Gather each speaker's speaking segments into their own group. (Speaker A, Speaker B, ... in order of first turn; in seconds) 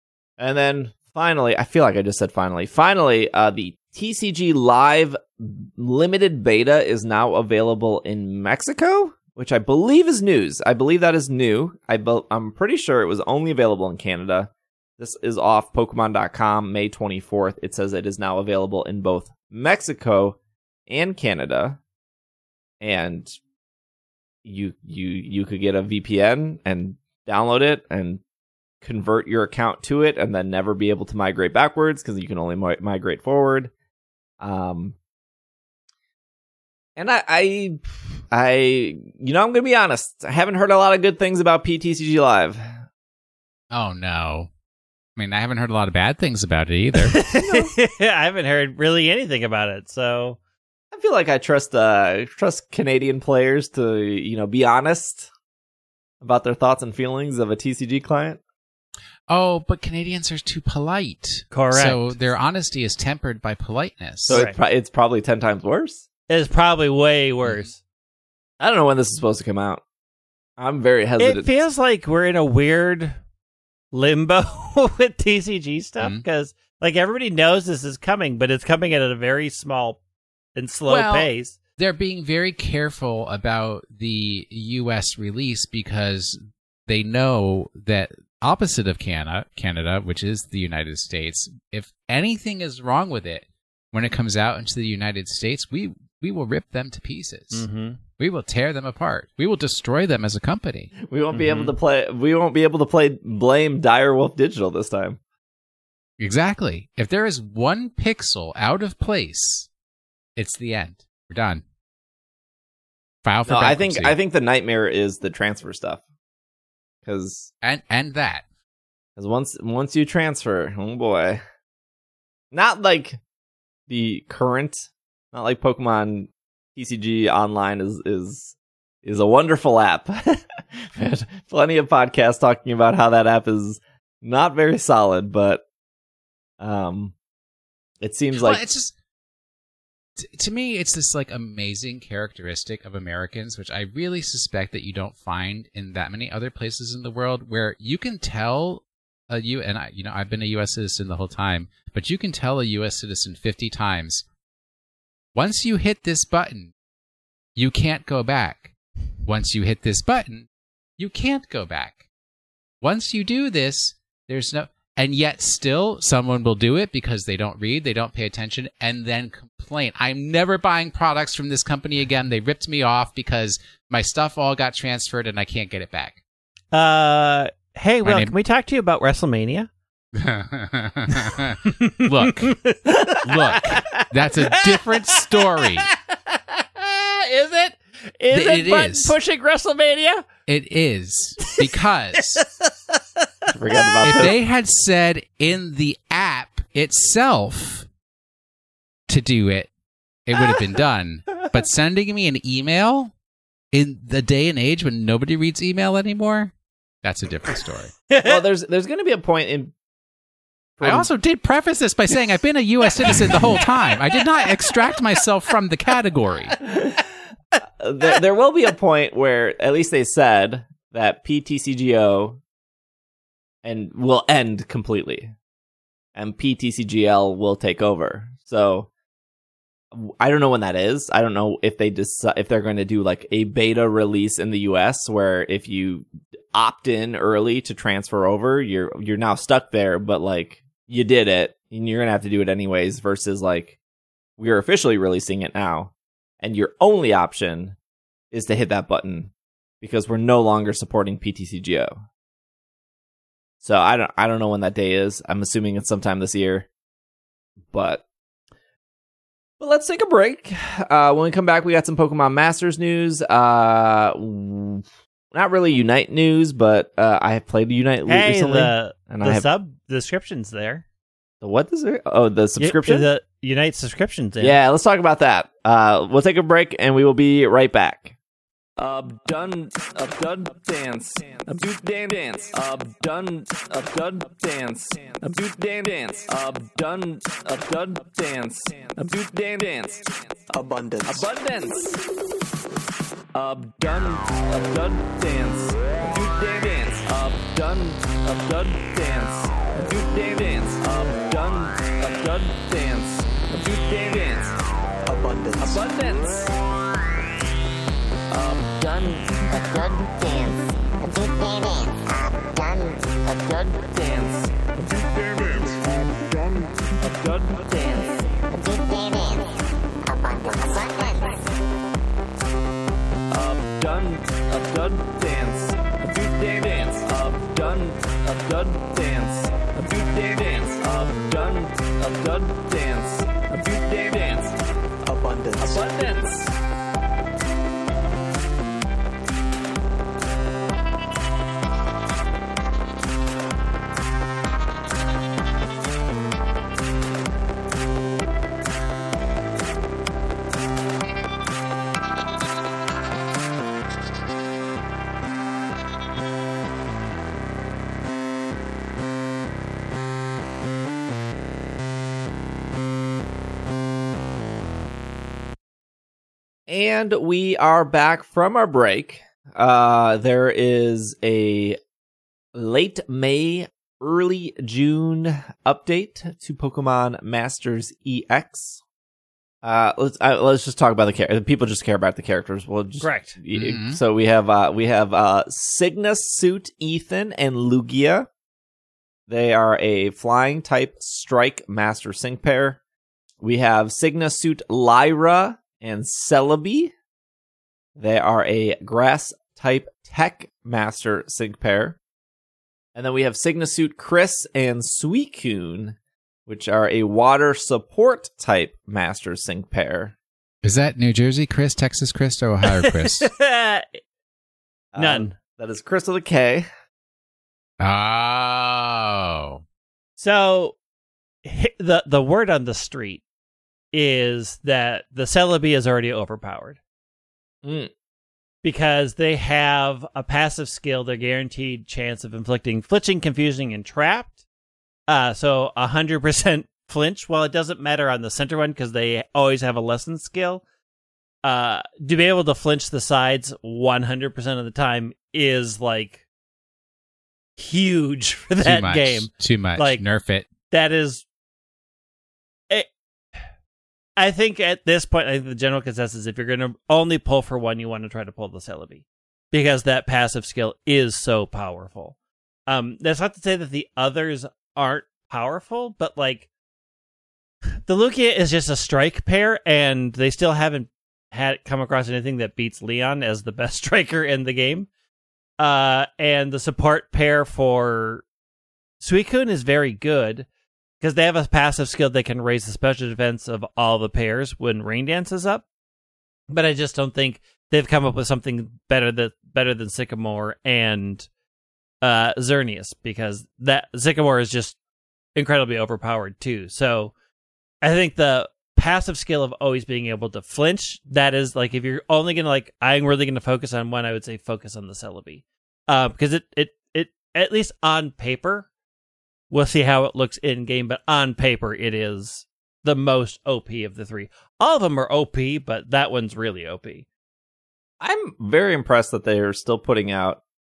Speaker A: 0.4-21.8, 22.8-23.3, 24.4-28.2, 28.8-33.7, 34.4-35.0, 37.0-42.8, 47.4-47.7, 50.9-55.3, 56.2-58.4, 64.2-66.0, 68.6-69.8, 70.6-71.5, 101.0-105.2, 113.5-116.0, 117.0-117.5, 119.2-121.4, 122.5-123.2, 123.9-135.6, 136.6-137.1, 138.0-138.6, 193.5-194.3, 208.2-209.7, 210.8-211.1, 216.7-217.0, 217.8-222.4, 223.6-225.3, 226.1-228.9, 229.9-243.8, 244.4-247.8, 248.3-252.0, 253.6-256.7, 257.7-258.0, 259.6-269.4, 271.4-273.1, 274.4-278.1, 278.8-290.3, 291.0-292.0, 293.3-304.6, 305.6-306.5, 308.3-309.2, 313.8-315.8, 317.0-318.2, 323.3-334.6, 335.6-336.5, 366.7-371.8, 372.5-378.8, 379.6-388.3, 389.3-392.8, 393.4-396.9, 397.9-402.0, 402.9-410.1, 414.9-416.7, 427.6-427.9, 518.0-520.4
Speaker B: 43.7-44.5, 45.1-47.2, 59.3-64.4, 80.9-97.7, 98.2-100.9, 106.2-109.7, 110.3-111.6, 113.2-114.2, 117.6-118.4, 138.3-138.9, 140.2-154.2, 155.3-156.7, 157.6-158.7, 159.2-160.5, 161.0-162.0, 162.8-176.2, 178.0-178.3, 180.1-185.9, 188.3-189.2, 190.5-192.4, 194.0-197.9, 199.1-199.7, 200.2-203.1, 203.7-207.9, 210.8-216.6, 383.5-384.0, 410.6-413.3, 417.8-419.6, 448.6-450.5
Speaker C: 47.0-50.4, 61.5-62.2, 64.3-64.5, 66.3-67.8, 71.2-73.2, 73.9-80.0, 80.5-81.5, 97.5-98.0, 101.3-101.7, 176.7-179.7, 181.7-190.3, 192.2-193.2, 193.8-194.2, 208.1-208.4, 213.1-215.2, 268.1-270.8, 272.6-274.6, 383.0-383.4, 412.6-414.0, 415.0-415.3, 420.2-420.8, 421.4-423.2, 423.9-426.8, 428.6-434.4, 435.1-440.6, 441.4-446.2, 447.6-450.0, 450.7-451.2, 452.7-453.4, 454.2-462.1, 462.7-466.5, 467.8-474.9, 475.6-478.2, 479.0-480.5, 481.0-485.6, 486.5-491.3, 492.0-494.8, 495.3-497.1, 497.8-508.7, 509.5-517.0
Speaker D: 290.5-291.3, 305.1-305.8, 335.0-335.9
Speaker E: 309.5-313.8, 315.7-316.9, 318.5-321.4